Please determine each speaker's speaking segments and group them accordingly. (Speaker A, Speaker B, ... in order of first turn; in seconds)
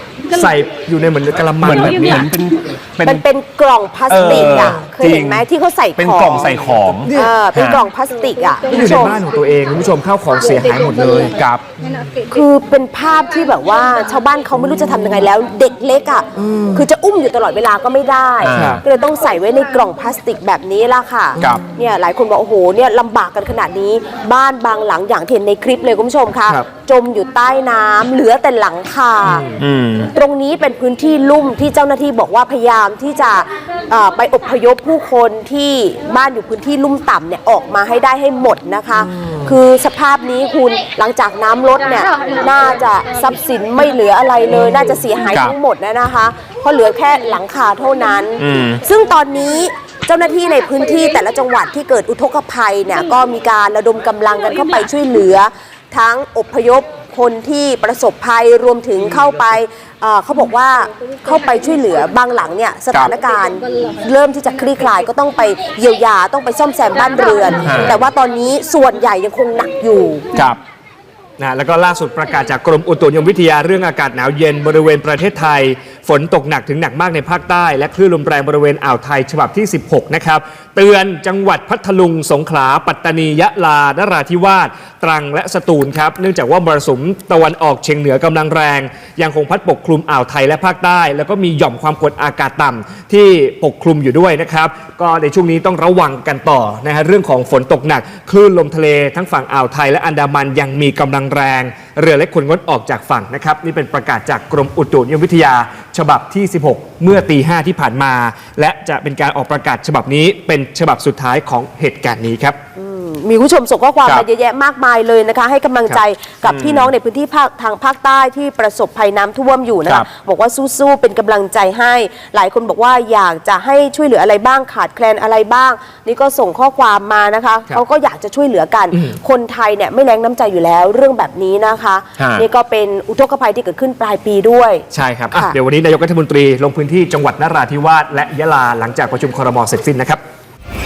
Speaker A: 0.3-2.3, 7.0-7.3, 8.7-12.2, 16.4-16.8, 18.5-18.8, 29.3-29.6, 39.2-39.5, 71.4-112.6, 128.9-129.2, 135.3-140.2
Speaker B: 1.6-3.2, 4.1-7.8, 11.3-11.6, 18.4-18.8, 29.6-30.1, 45.3-45.5, 48.4-48.8, 67.6-68.0, 116.4-116.9, 132.2-132.4, 134.9-135.3
Speaker C: 3.0-9.2, 12.3-29.5, 30.1-70.3, 112.8-135.5